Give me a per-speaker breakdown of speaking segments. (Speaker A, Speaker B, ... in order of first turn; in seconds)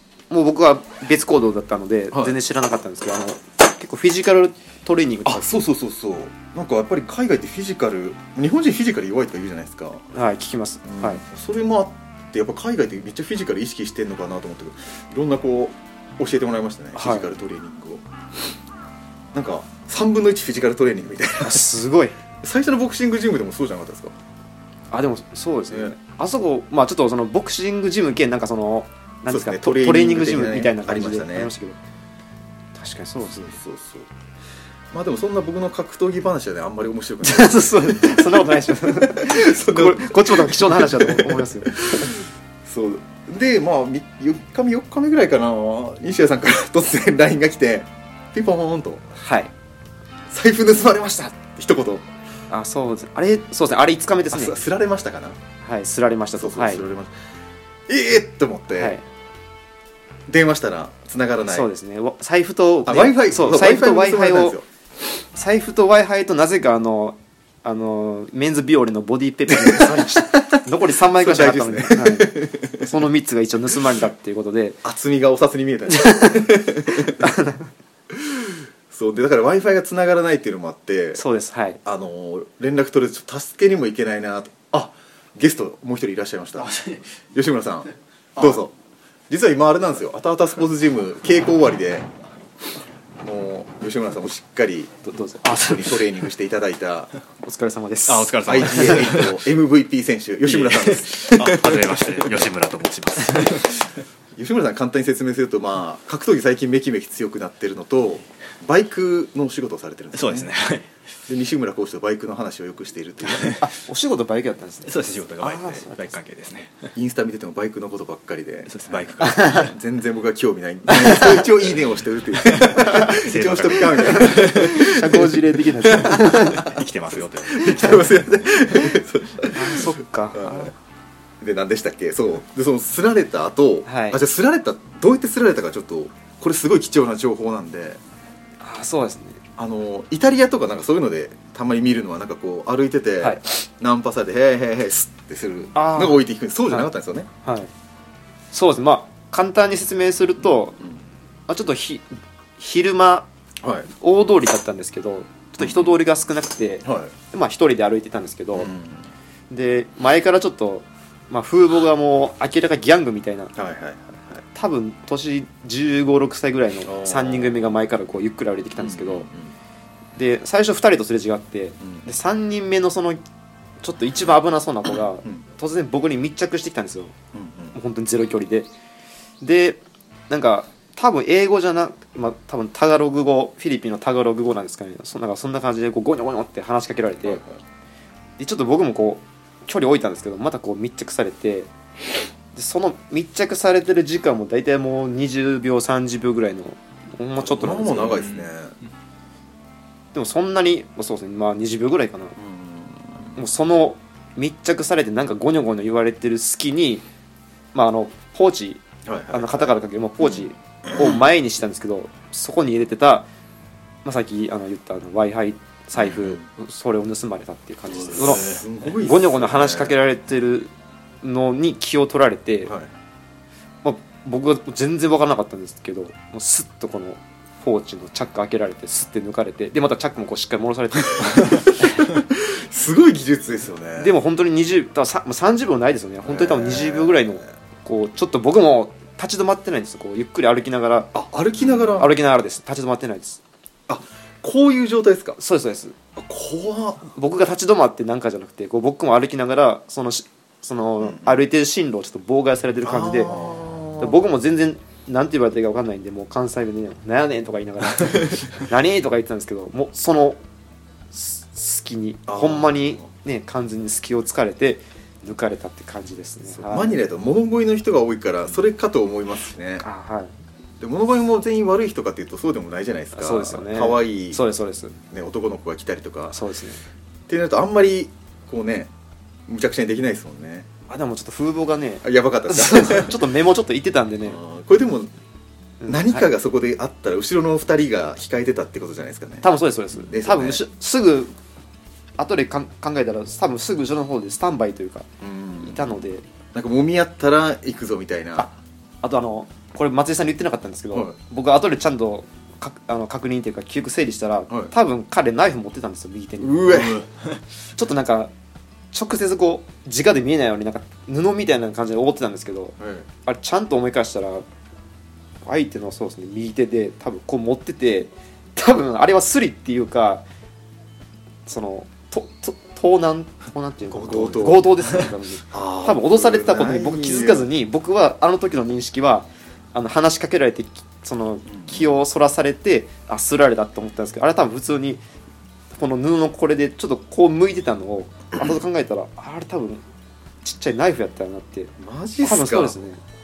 Speaker A: 0.3-5.4, 10.1-11.2, 16.9-17.3, 21.4-22.1, 24.9-31.8, 32.7-33.6, 37.2-42.1, 49.2-49.5, 52.5-54.6, 55.6-56.8, 58.7-59.0, 61.5-64.6, 65.3-74.8, 75.9-77.7, 81.2-81.8, 95.0-96.0, 97.4-98.9, 113.6-116.2, 119.2-119.6, 124.1-126.7, 129.5-130.7, 133.8-134.2, 138.6-139.4, 145.7-146.9, 147.4-147.7, 148.5-150.8, 151.5-152.0, 152.6-153.3, 154.0-158.7, 159.5-163.5, 164.5-169.3, 170.2-173.2, 173.8-177.1, 177.7-178.7, 179.4-187.4, 188.4-191.7, 192.5-198.2, 200.1-202.4, 203.3-207.0, 207.7-208.8, 209.3-213.3, 214.0-222.7, 223.8-232.1, 234.0-241.1, 241.6-243.4, 245.4-245.9, 247.1-260.4, 261.1-267.0, 269.8-270.3, 273.1-275.0, 276.3-276.8, 280.9-284.4, 285.8-286.2, 289.4-291.3, 292.2-295.1, 295.6-296.2, 299.0-307.0, 307.8-308.3, 308.9-314.4, 315.4-320.2, 321.4-335.0, 335.7-339.8, 340.4-343.0
Speaker B: 5.2-10.1, 10.8-18.0, 19.3-21.7, 22.4-24.1, 29.3-31.5, 33.3-34.1, 34.9-49.0, 50.3-52.1, 54.3-55.4, 56.4-57.1, 57.9-59.0, 60.3-61.7, 62.9-64.6, 69.5-70.6, 71.1-72.9, 74.8-77.3, 78.1-81.2, 81.8-86.8, 87.3-88.7, 89.3-92.1, 93.2-94.9, 95.4-97.1, 98.4-102.4, 104.3-110.5, 111.3-113.6, 116.9-126.8, 127.4-130.7, 131.4-138.0, 139.6-147.3, 153.6-153.9, 155.6-156.0, 156.8-157.1, 158.5-159.1, 163.5-164.4, 166.8-167.7, 168.8-169.5, 177.3-177.7, 187.2-187.6, 197.4-198.7, 202.4-203.4, 209.0-211.2, 215.9-216.4, 218.0-220.0, 231.2-234.1, 236.2-237.4, 241.1-242.1, 243.9-245.4, 246.1-247.0, 251.0-251.3, 252.8-254.2, 258.0-258.4, 262.3-263.0, 266.5-269.8, 270.8-274.4, 275.1-276.4, 277.3-278.9, 279.5-280.7, 282.0-283.2, 284.3-285.1, 285.9-290.6, 295.2-295.9, 296.5-298.5, 306.4-307.0, 312.8-313.1, 323.9-324.6, 325.5-327.5, 331.5-331.9, 341.8-342.8
Speaker C: 86.6-87.0, 98.1-99.4, 100.5-103.8, 110.1-110.9, 113.3-113.6, 114.9-116.9, 118.7-119.7, 122.5-124.7, 126.1-128.0, 198.2-198.5, 324.2-325.1